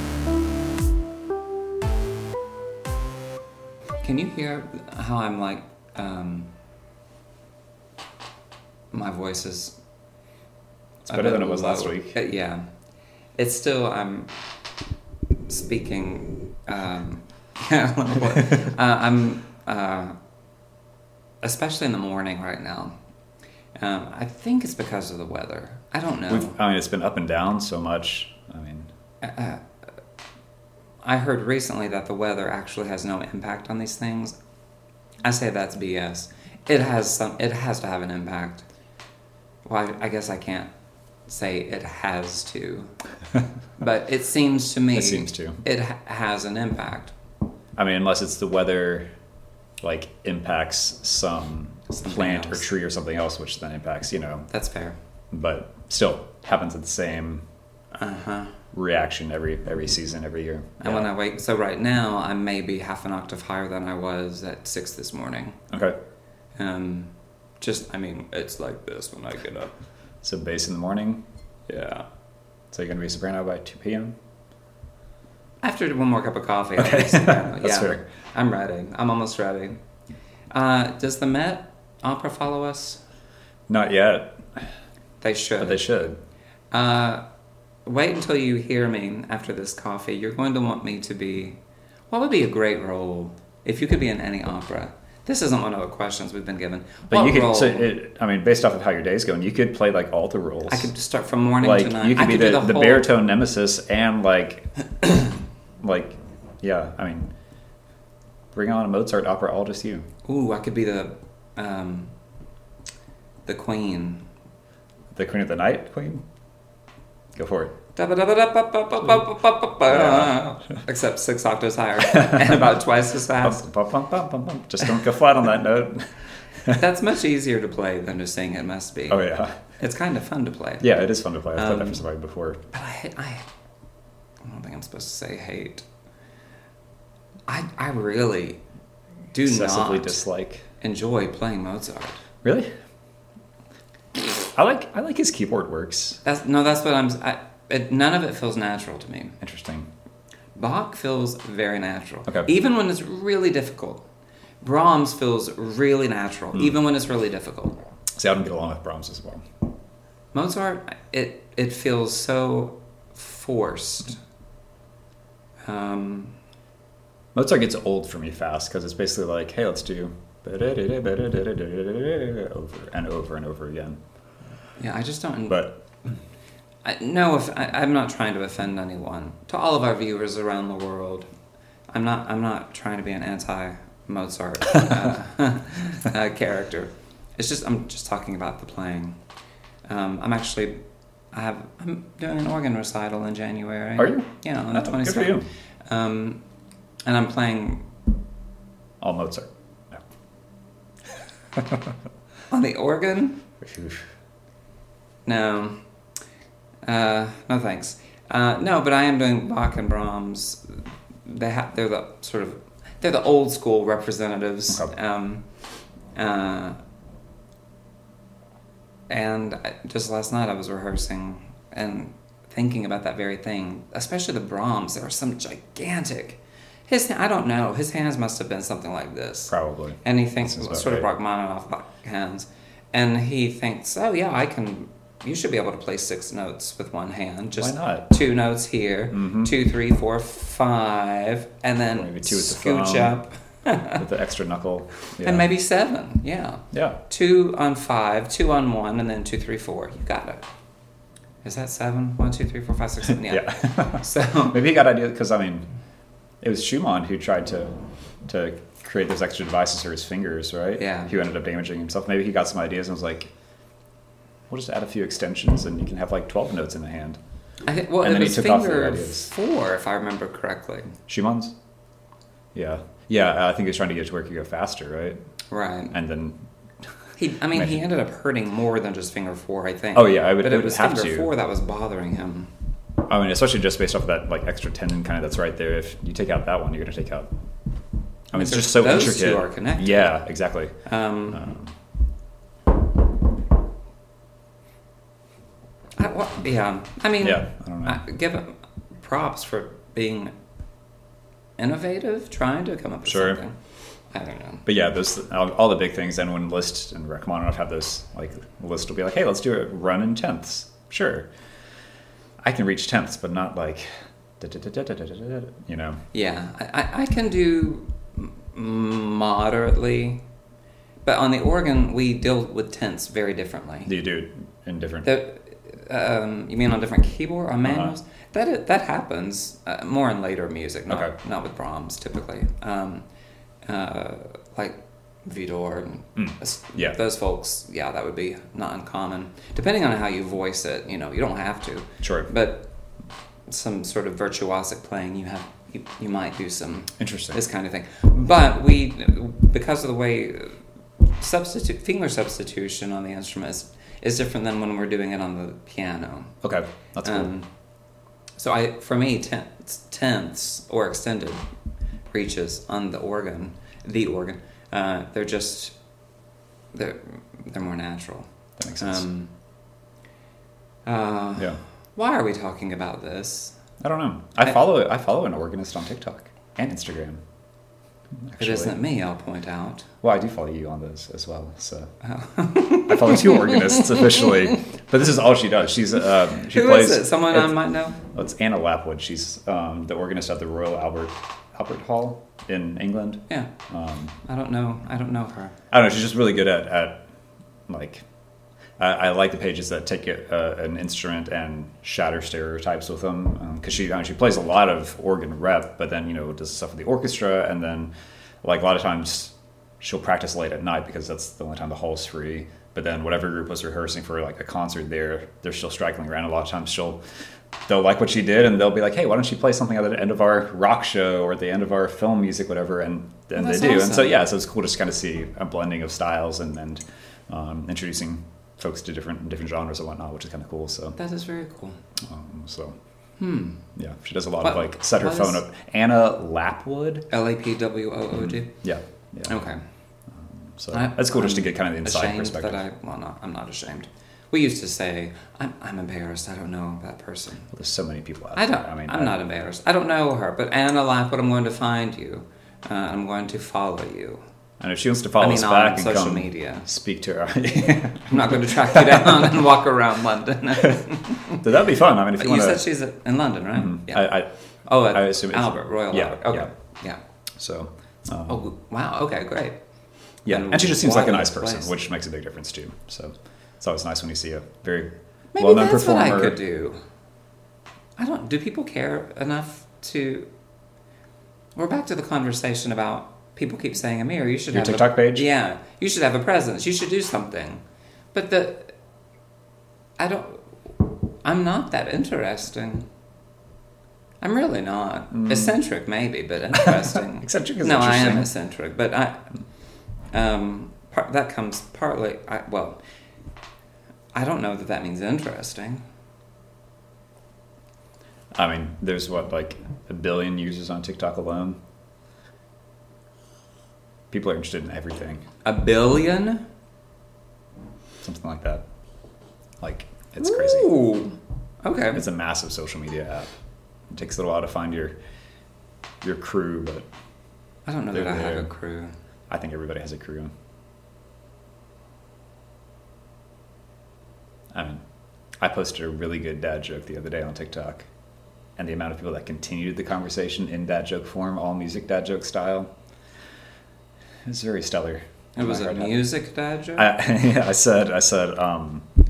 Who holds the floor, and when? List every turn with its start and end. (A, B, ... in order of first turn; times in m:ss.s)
0:04.0-0:06.5 A
0:08.9-0:09.8 A
0:11.0-0:12.2 B
0:11.1-0:12.6 A
0:13.4-0:14.3 A
0:15.5-0:20.2 A
0:21.4-0:22.9 A
0:23.7-0:26.5 A
0:26.3-0:28.9 B
0:29.2-0:29.6 A
0:31.0-0:34.3 A
0:35.2-0:38.6 A
0:39.6-0:40.7 A
0:41.3-0:42.9 A
0:43.8-0:47.1 A
0:44.9-0:45.6 B
0:47.8-0:49.1 B
0:49.8-0:54.5 B
0:51.9-0:52.6 A
0:54.5-0:55.0 A
0:55.3-0:57.4 B
0:57.9-0:58.5 A
0:58.7-1:01.1 B
1:00.8-1:05.6 A
1:05.7-1:06.0 B
1:06.6-1:09.7 A
1:10.2-1:11.2 B
1:11.7-1:12.0 A
1:12.7-1:14.1 B
1:15.6-1:19.8 A
1:16.8-1:18.0 B
1:20.5-1:23.0 A
1:23.7-1:24.6 B
1:25.2-1:25.9 A
1:25.6-1:26.2 B
1:26.7-1:27.2 A
1:27.8-1:31.6 A
1:32.1-1:37.9 A
1:37.1-1:40.9 B
1:40.7-1:43.1 A
1:41.6-1:44.7 B
1:45.8-1:47.3 B
1:48.5-1:50.0 B
1:50.2-1:52.1 A
1:53.4-1:54.2 A
1:55.1-1:56.2 B
1:57.4-1:57.7 B
1:57.9-2:03.6 A
1:59.8-2:00.4 B
2:02.1-2:02.8 B
2:03.3-2:06.1 B
2:06.7-2:09.2 A
2:09.1-2:09.6 B
2:09.8-2:10.9 A
2:10.8-2:12.6 B
2:11.5-2:12.0 A
2:12.7-2:13.4 A
2:14.4-2:15.8 A
2:17.5-2:18.6 A
2:19.3-2:20.2 A
2:19.4-2:20.6 B
2:20.8-2:22.2 A
2:22.4-2:22.7 B
2:24.4-2:26.2 B
2:26.2-2:29.3 A
2:29.4-2:29.9 B
2:30.5-2:34.0 A
2:34.6-2:37.8 A
2:36.5-2:36.8 B
2:38.2-2:39.4 B
2:40.3-2:44.2 A
2:45.6-2:46.4 A
2:47.3-2:54.0 B
2:54.8-2:55.7 A
2:55.5-2:55.8 B
2:56.8-3:01.3 A
3:01.9-3:09.2 A
3:09.9-3:10.8 A
3:11.3-3:16.4 A
3:14.0-3:15.5 B
3:17.0-3:17.8 A
3:19.0-3:20.0 B
3:22.5-3:23.4 A
3:23.6-3:24.0 B
3:25.2-3:25.8 A
3:26.8-3:35.4 A
3:34.7-3:34.9 B
3:36.1-3:36.8 A
3:39.1-4:04.0 A
3:49.5-3:51.1 B
3:57.6-3:58.1 B
3:59.1-3:59.5 B
4:01.9-4:03.2 B
4:04.0-4:05.5 B
4:05.2-4:10.4 A
4:06.7-4:07.0 B
4:11.4-4:14.6 A
4:13.2-4:15.6 B
4:16.4-4:17.7 B
4:18.2-4:23.3 B
4:20.8-4:21.1 A
4:24.5-4:27.2 B
4:27.6-4:31.0 A
4:28.0-4:29.3 B
4:31.1-4:31.5 B
4:32.5-4:35.2 B
4:35.5-4:35.9 A
4:35.9-4:36.4 B
4:37.2-4:42.5 A
4:37.5-4:37.8 B
4:39.9-4:41.3 B
4:43.1-4:47.3 B
4:48.3-4:50.7 B
4:48.3-4:50.1 A
4:50.8-4:51.5 A
4:51.3-4:51.7 B
4:56.0-5:00.3 A
4:57.2-4:58.0 B
5:01.6-5:03.6 A
5:03.0-5:03.4 B
5:04.1-5:04.6 A
5:04.6-5:11.3 B
5:12.4-5:16.0 B
5:16.1-5:20.2 A
5:21.0-5:23.9 A
5:23.8-5:25.1 B
5:25.0-5:33.0 A
5:27.6-5:27.9 B
5:30.9-5:31.1 B
5:33.6-5:42.7 A
5:36.2-5:37.0 B
5:42.0-5:42.3 B
5:43.5-5:56.3 A
5:47.0-5:47.4 B
5:56.4-5:57.3 B
5:57.0-5:57.5 A
5:58.4-6:01.4 A
6:02.1-6:05.7 A
6:06.7-6:09.3 A
6:08.6-6:09.0 B
6:10.8-6:13.6 A
6:13.8-6:17.2 B
6:18.3-6:18.8 B
6:18.4-6:19.9 A
6:20.0-6:21.9 B
6:22.0-6:24.4 A
6:22.7-6:34.1 B
6:26.3-6:28.0 A
6:34.2-6:35.5 A
6:35.7-6:37.0 B
6:37.7-6:38.0 B
6:38.8-6:47.9 B
6:48.4-6:57.0 B
6:57.7-7:11.0 B
7:03.4-7:04.2 A
7:10.9-7:11.8 A
7:12.0-7:12.7 B
7:13.2-7:13.6 A
7:13.7-7:17.1 B
7:14.4-7:15.4 A
7:17.1-7:18.5 A
7:18.1-7:19.4 B
7:19.2-7:19.6 A
7:20.1-7:22.6 B
7:20.7-7:27.5 A
7:27.5-7:29.2 B
7:28.4-7:34.2 A
7:34.6-7:39.3 B
7:35.2-7:36.7 A
7:38.1-7:41.4 A
7:40.6-7:42.6 B
7:42.2-7:47.0 A
7:43.5-7:46.5 B
7:47.4-7:48.4 B
7:48.2-7:49.6 A
7:50.2-7:56.4 B
7:50.3-7:51.7 A
7:55.3-7:56.8 A
7:58.0-8:00.3 A
8:01.5-8:07.6 A
8:04.5-8:05.3 B
8:08.1-8:08.7 A
8:10.0-8:12.8 A
8:14.2-8:19.3 A
8:15.1-8:15.6 B
8:16.6-8:18.3 B
8:20.1-8:22.8 A
8:24.1-8:25.8 A
8:28.3-8:31.6 B
8:34.1-8:35.2 B
8:35.4-8:36.4 A
8:38.0-8:38.6 B
8:39.6-8:40.7 B
8:40.2-8:42.0 A
8:41.9-8:43.3 B
8:43.9-8:44.9 B
8:46.0-8:46.8 B
8:47.6-8:48.9 A
8:47.9-8:48.5 B
8:49.3-8:50.3 B
8:54.5-8:54.8 B
8:55.4-8:57.9 B
8:58.6-9:02.7 B
9:04.3-9:06.1 B
9:05.4-9:06.9 A
9:06.8-9:08.9 B